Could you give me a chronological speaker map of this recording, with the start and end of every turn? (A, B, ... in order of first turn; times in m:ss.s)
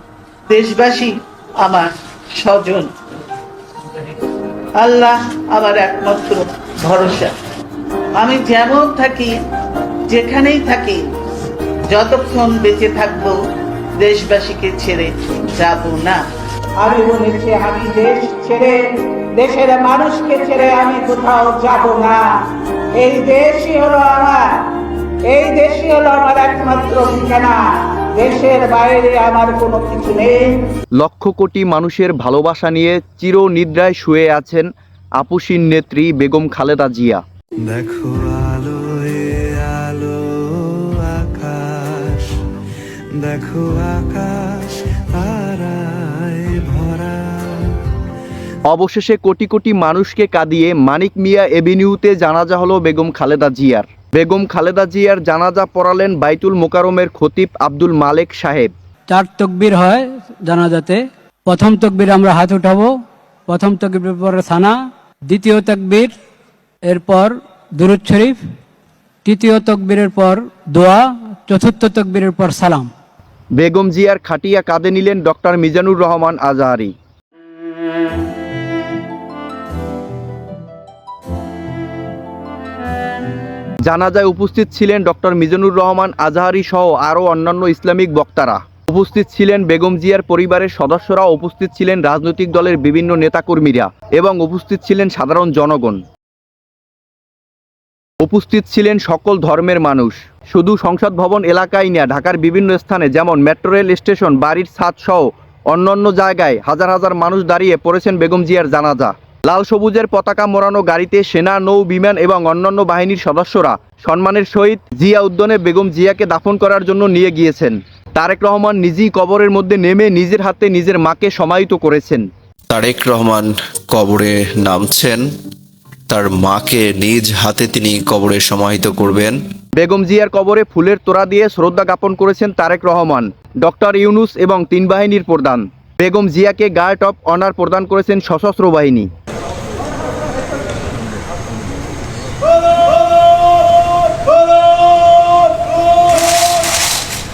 0:00.5-0:02.9 A
0:04.8-0:07.3 A
0:08.2-0:09.3 A
0:10.1-0:11.0 A
0:11.9-0:13.4 A
0:14.0-0:16.2 A
0:16.8-0:18.8 B
0:19.4-0:22.3 B
0:23.0-0:24.5 B
0:25.3-0:30.6 B
0:31.0-0:34.7 C
0:35.2-0:37.2 C
0:37.6-0:42.4 D
0:43.2-0:47.8 D
0:48.7-0:58.7 C
0:59.1-1:02.9 E
1:03.5-1:04.8 E
1:05.3-1:06.1 E
1:06.9-1:08.4 E
1:09.2-1:12.9 E
1:13.6-1:16.9 C
1:23.8-1:36.0 C
1:38.2-2:02.2 C
2:02.7-2:05.2 F
2:06.1-2:09.4 F
2:09.8-2:19.1 C